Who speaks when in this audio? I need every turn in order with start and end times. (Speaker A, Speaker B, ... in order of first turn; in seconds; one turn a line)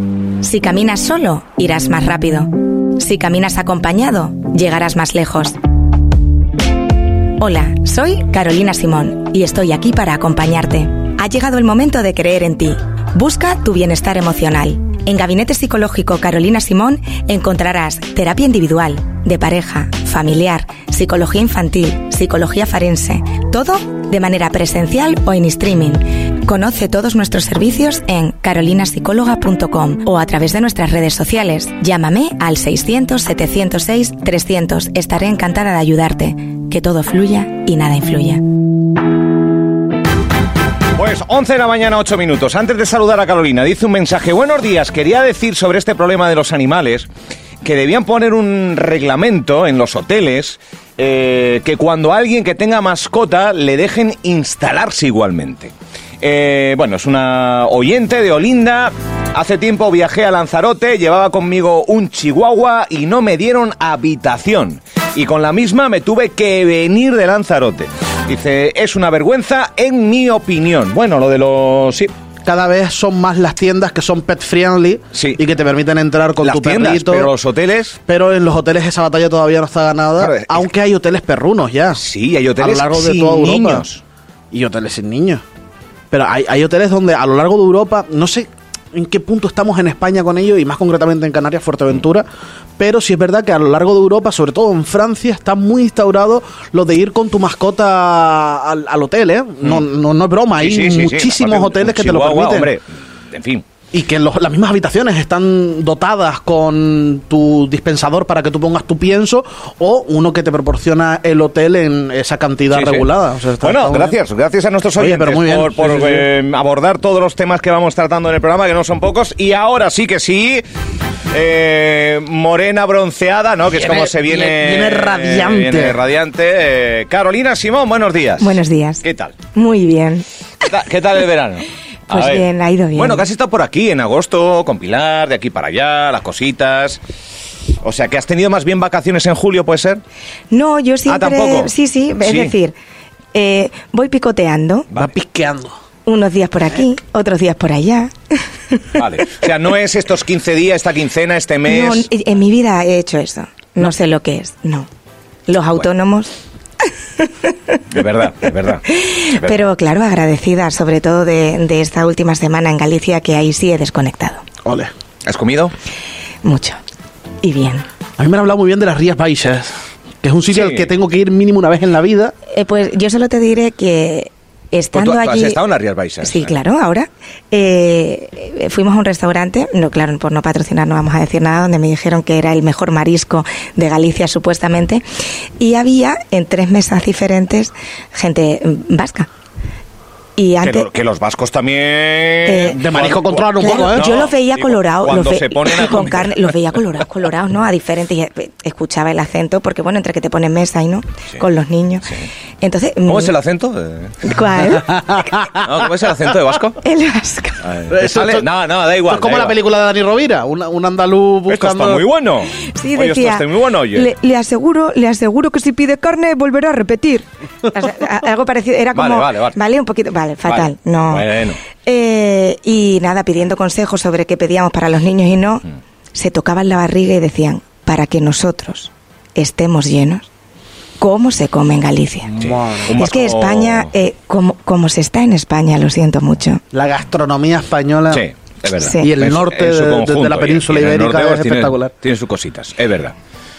Speaker A: 0.4-5.6
Speaker A: 7.4-38.4
Speaker B: 40.9-47.1
Speaker B: 47.6-72.1
Speaker C: 72.4-77.3
Speaker B: 75.1-75.4
Speaker B: 76.4-78.0
Speaker C: 78.1-82.0
Speaker B: 80.2-80.7
Speaker B: 81.9-84.0
Speaker C: 82.6-83.8
Speaker C: 84.5-85.4
Speaker C: 86.1-92.2
Speaker C: 92.8-102.7
Speaker B: 100.6-103.7
Speaker C: 103.9-114.2
Speaker B: 112.7-113.1
Speaker B: 113.6-120.6
Speaker C: 115.0-116.3
Speaker B: 121.3-129.3
Speaker C: 123.7-126.0
Speaker A: 128.4-130.2
Speaker B: 130.6-137.0
Speaker A: 132.1-133.2
Speaker B: 137.8-140.0
Speaker A: 140.5-142.7
Speaker B: 141.1-142.5
Speaker A: 143.3-144.9
Speaker C: 144.9-145.8
Speaker A: 146.1-149.0
Speaker B: 148.9-152.1
Speaker A: 151.7-154.9
Speaker A: 155.5-156.3
Speaker A: 157.2-157.8
Speaker B: 157.9-159.6
Speaker A: 158.8-164.4
Speaker C: 164.6-164.9
Speaker B: 165.2-165.7
Speaker A: 166.4-166.8
Speaker A: 167.4-167.8
Speaker C: 168.2-172.3
Speaker B: 170.5-170.9
Speaker A: 172.5-175.6
Speaker B: 174.9-176.6
Speaker A: 176.2-185.0
Speaker A: 185.6-189.3
Speaker A: 190.4-190.9
Speaker B: 190.6-196.5
Speaker A: 192.4-192.8
Speaker C: 192.7-194.1
Speaker A: 193.6-203.3
Speaker B: 203.1-204.3
Speaker A: 204.2-205.4
Speaker C: 204.7-205.7
Speaker B: 205.6-206.8
Speaker A: 206.8-207.7
Speaker B: 207.6-209.6
Speaker C: 207.9-208.5
Speaker C: 209.1-212.0
Speaker B: 211.5-214.1
Speaker A: 212.5-221.3
Speaker B: 218.9-219.6
Speaker B: 220.4-221.6
Speaker A: 221.8-230.3
Speaker A: 231.0-232.3
Speaker C: 232.3-233.0
Speaker B: 232.4-233.9
Speaker A: 232.9-236.6
Speaker C: 236.7-238.2
Speaker B: 238.1-243.1
Speaker A: 238.8-239.1
Speaker C: 239.0-241.9